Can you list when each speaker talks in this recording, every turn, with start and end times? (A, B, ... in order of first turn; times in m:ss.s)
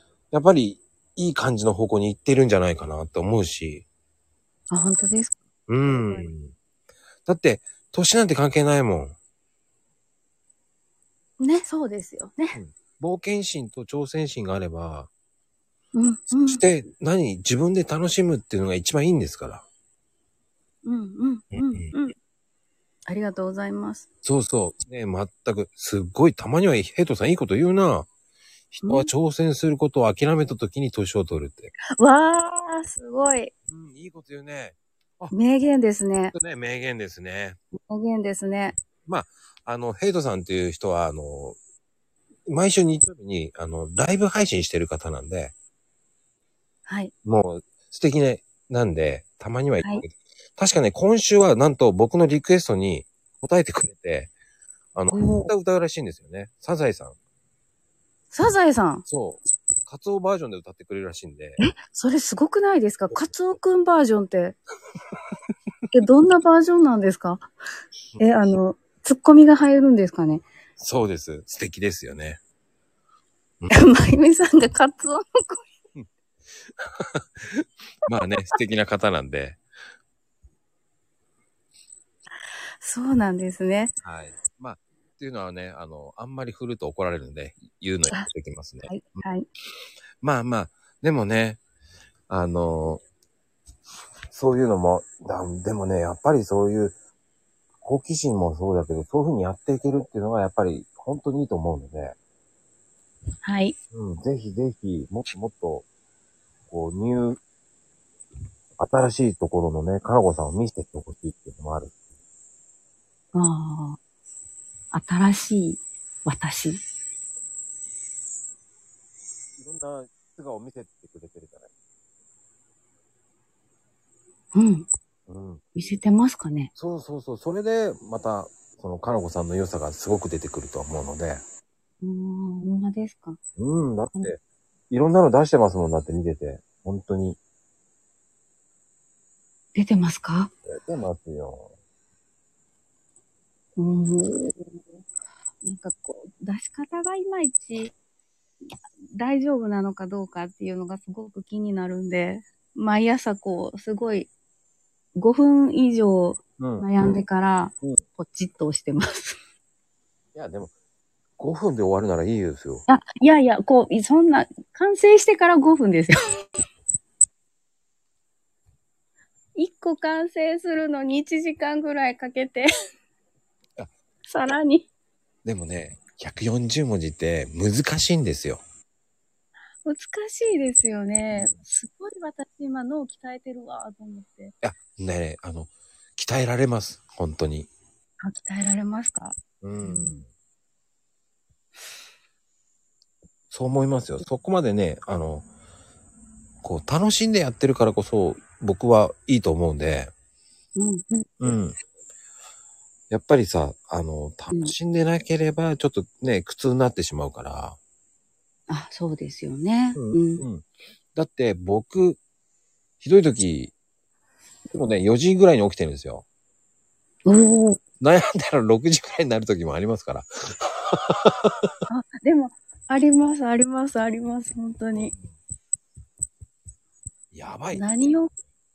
0:00.3-0:03.9 A
0:04.7-0:06.3 B
0:05.7-0:06.5 A
0:07.3-0:09.2 A
0:11.4-0:12.6 B
0:12.5-0:15.1 A
0:15.9-0:16.6 B
0:16.4-0:19.6 A
0:20.8-0:22.2 B
0:21.5-0:21.9 A
0:23.1-0:24.0 B
0:24.2-0:28.1 A
0:28.7-0:31.7 A
0:28.8-0:29.1 B
0:31.9-0:33.5 B
0:33.7-0:35.4 A
0:35.3-0:36.3 B
0:36.3-0:37.6 A
0:37.7-0:38.8 B
0:39.1-0:41.6 A
0:42.5-0:45.5 A
0:46.9-0:47.1 B
0:47.2-0:54.3 A
0:55.0-0:57.2 A
0:55.1-0:55.5 B
0:58.3-0:59.0 B
0:59.1-1:01.6 A
1:01.6-1:04.6 B
1:05.9-1:07.5 B
1:08.2-1:10.4 B
1:10.8-1:12.4 A
1:13.7-1:15.6 B
1:16.6-1:19.6 A
1:22.8-1:23.9 B
1:24.0-1:29.2 A
1:28.9-1:29.5 B
1:30.2-1:31.6 A
1:32.3-1:33.0 A
1:34.3-1:37.0 A
1:37.8-1:42.2 A
1:43.4-1:43.8 B
1:43.9-1:45.9 A
1:46.7-1:47.4 A
1:48.8-1:51.9 A
1:53.3-1:54.0 B
1:54.9-1:56.8 B
1:59.6-2:01.7 A
2:04.5-2:04.9 B
2:05.3-2:05.6 A
2:05.8-2:06.7 B
2:06.8-2:11.4 A
2:12.0-2:13.4 B
2:13.6-2:14.4 A
2:14.9-2:17.4 A
2:19.8-2:20.5 B
2:20.7-2:21.7 A
2:23.8-2:24.8 B
2:25.6-2:27.9 B
2:29.1-2:34.3 B
2:35.2-2:39.4 B
2:36.6-2:36.9 A
2:40.4-2:40.7 A
2:41.4-2:42.8 A
2:42.9-2:46.4 B
2:49.6-2:52.7 B
2:54.3-2:54.9 B
2:55.4-2:58.6 A
2:59.8-3:04.6 B
3:01.3-3:01.6 A
3:04.6-3:07.7 A
3:08.2-3:10.2 B
3:09.6-3:10.3 A
3:13.5-3:15.5 A
3:16.6-3:20.1 A
3:20.8-3:21.4 B
3:21.4-3:21.8 A
3:23.1-3:27.8 A
3:28.7-3:30.4 B
3:29.9-3:32.2 A
3:33.0-3:33.7 A
3:34.7-3:36.3 A
3:37.3-3:37.8 B
3:38.0-3:41.7 A
3:41.9-3:45.1 B
3:44.9-3:45.3 A
3:47.3-3:47.9 A
3:47.7-3:48.3 B